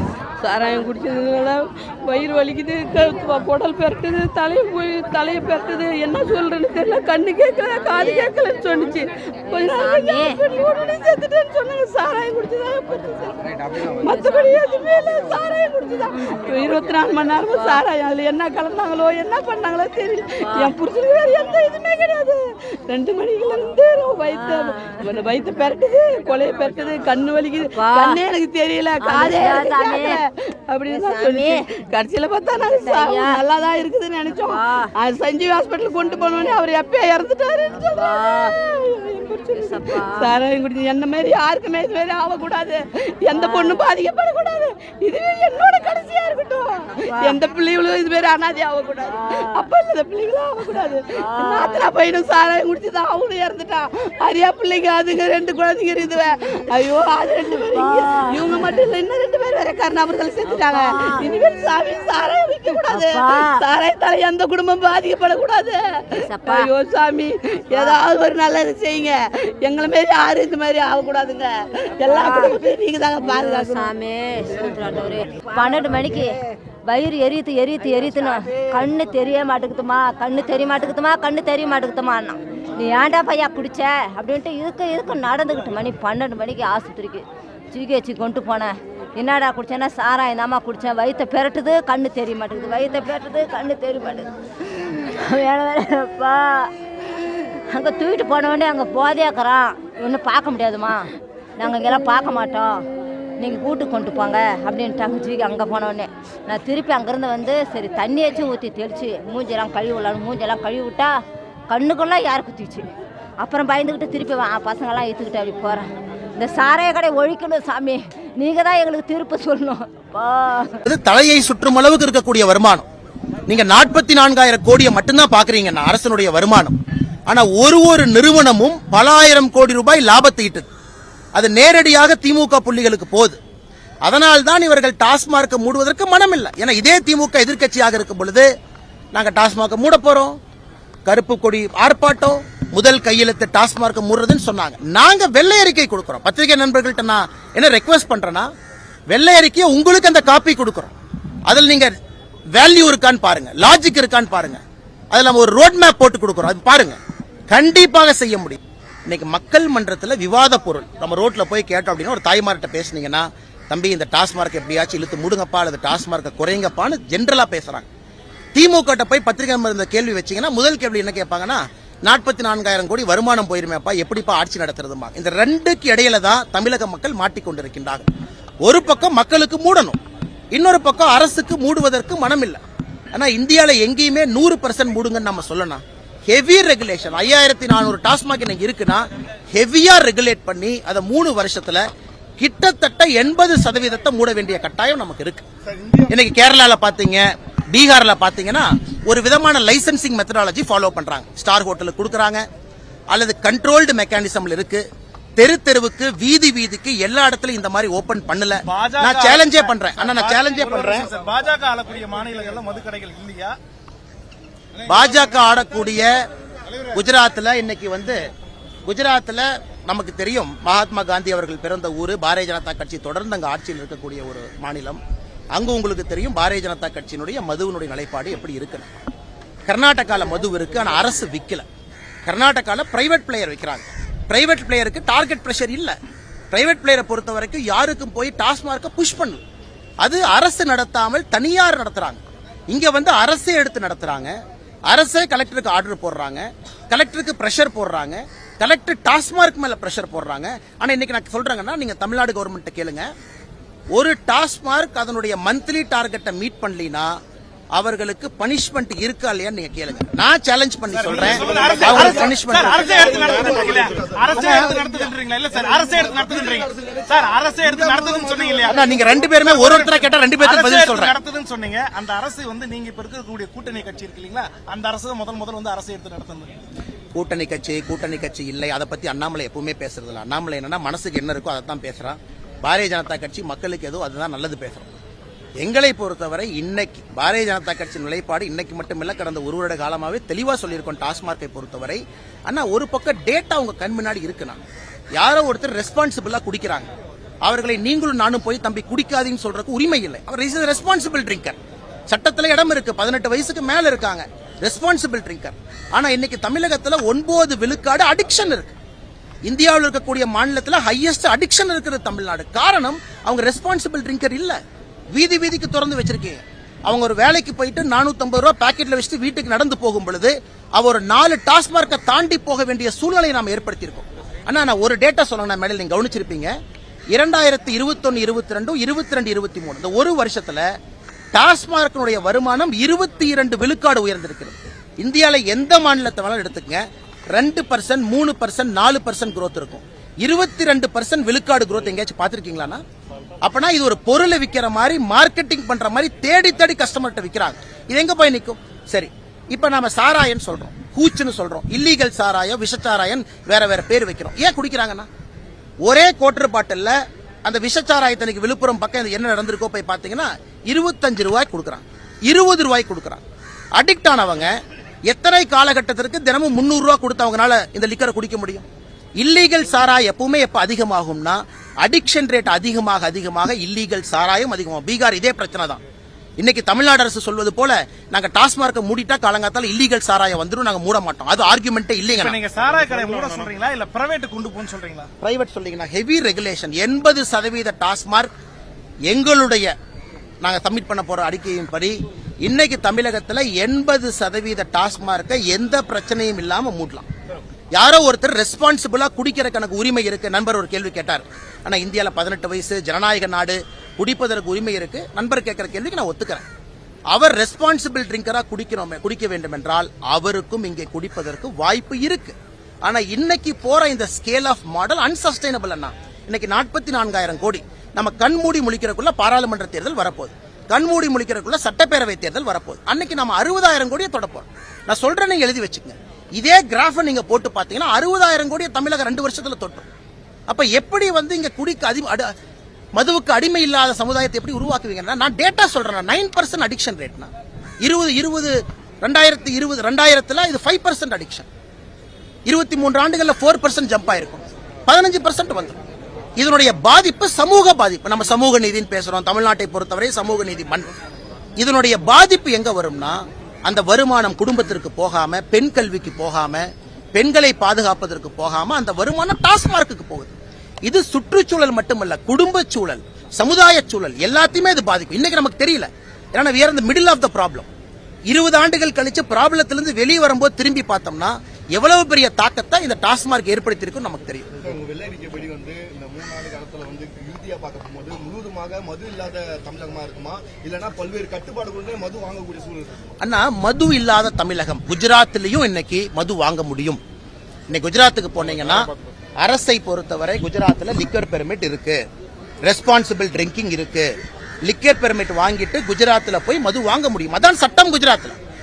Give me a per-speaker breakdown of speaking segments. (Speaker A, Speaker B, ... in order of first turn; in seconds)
Speaker A: 0.4-65.8, 66.5-73.9
Speaker B: 7.9-8.3, 9.5-10.4, 14.1-14.6, 17.6-17.8, 20.4-20.8, 24.3-25.1, 27.8-28.2, 29.0-30.2, 30.9-31.6, 32.6-33.4, 34.3-34.9, 36.3-36.5, 37.8-38.5, 39.5-40.4, 43.3-43.8, 46.9-47.4, 49.2-49.6, 51.1-51.9, 57.7-58.8, 60.5-61.3, 62.9-63.6, 66.1-66.7, 72.1-72.6, 73.2-96.7, 97.7-102.8, 103.4-111.2, 111.7-112.9, 113.4-115.8, 116.4-120.8
Speaker C: 120.9-122.9, 123.5-126.8, 127.3-130.7, 131.3-133.4, 134.1-138.5, 139.1-140.4, 141.1-148.5, 149.1-150.9, 151.5-151.9, 152.5-154.6, 155.1-157.0, 157.5-167.9, 168.6-178.1, 178.6-180.0, 180.5-182.6, 183.1-191.8, 192.4-195.4, 196.1-202.4, 203.1-204.8, 205.4-211.1, 214.9-216.2, 216.9-218.2, 218.9-225.0, 225.5-228.9, 229.7-231.7, 232.3-235.9, 236.5-239.4, 240.0-244.3, 244.9-253.1, 253.9-257.2, 257.8-262.8, 268.7-271.1, 277.1-284.9, 285.6-294.6, 295.2-296.9, 297.4-301.6, 302.1-308.7, 309.5-314.6, 315.1-326.5, 327.1-330.7, 331.3-342.8, 343.4-355.1, 355.8-356.9, 357.4-363.2, 363.8-364.5, 365.1-368.6, 369.2-375.8, 376.4-382.4, 385.2-388.3, 389.1-389.7, 390.4-397.1, 397.7-406.4, 407.1-429.9, 430.5-432.3, 433.0-437.3, 437.8-441.5, 442.5-445.8, 446.4-450.9, 451.6-460.3, 460.9-467.7, 468.3-474.5, 483.2-487.0, 487.7-488.9, 489.4-492.0, 492.6-494.1, 494.6-498.4
Speaker D: 195.7-196.2, 261.3-269.4, 474.6-483.1
Speaker E: 208.7-213.6, 260.9-268.8, 269.4-276.6, 382.1-385.1